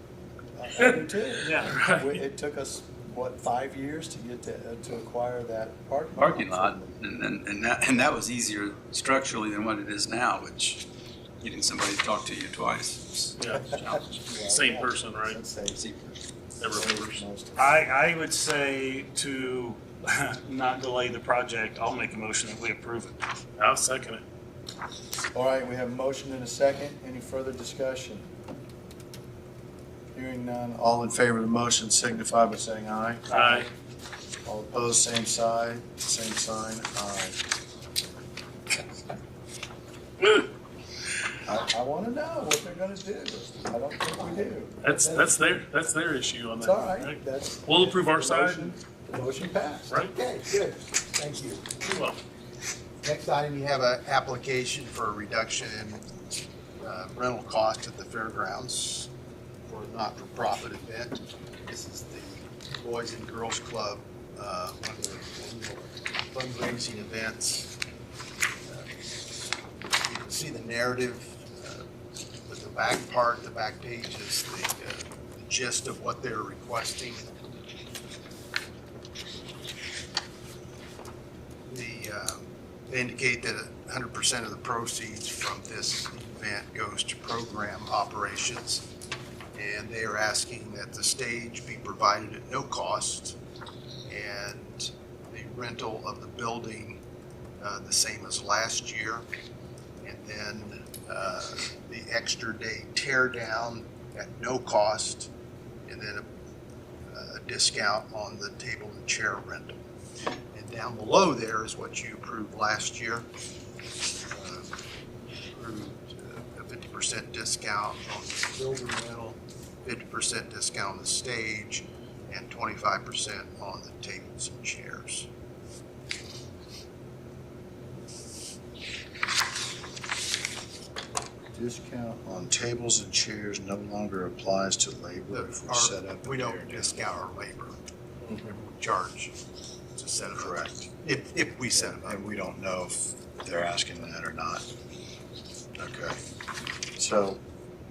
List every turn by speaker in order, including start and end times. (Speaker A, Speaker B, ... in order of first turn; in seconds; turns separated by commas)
Speaker A: 0.6-7.0, Speaker B: 1.4-1.7, Speaker C: 1.6-2.2, Speaker D: 6.2-10.9, Speaker D: 11.4-13.3, Speaker C: 13.4-15.4, Speaker A: 14.2-15.9, Speaker D: 15.7-16.1, Speaker C: 16.6-17.2, Speaker A: 16.7-17.8, Speaker B: 17.6-23.2, Speaker C: 23.6-24.2, Speaker A: 25.3-28.3, Speaker A: 30.1-33.2, Speaker B: 33.3-33.6, Speaker C: 33.3-33.7, Speaker A: 34.5-37.4, Speaker A: 41.5-45.3, Speaker C: 44.8-48.8, Speaker A: 46.6-50.1, Speaker E: 50.1-51.9, Speaker C: 51.8-52.2, Speaker E: 53.0-56.1, Speaker E: 56.8-59.1, Speaker E: 59.7-67.7, Speaker E: 68.7-68.9, Speaker E: 70.0-71.9, Speaker E: 72.5-77.3, Speaker E: 81.7-88.8, Speaker E: 89.5-93.4, Speaker E: 94.1-97.0, Speaker E: 97.6-99.3, Speaker E: 100.0-105.3, Speaker E: 105.9-106.3, Speaker E: 107.1-109.8, Speaker E: 110.5-113.3, Speaker E: 114.3-114.8, Speaker E: 115.5-125.3, Speaker A: 131.5-137.0, Speaker E: 135.3-137.8, Speaker E: 138.8-139.3, Speaker E: 139.9-142.2, Speaker A: 140.3-140.9, Speaker A: 141.7-144.7, Speaker A: 145.8-146.2, Speaker A: 147.0-147.4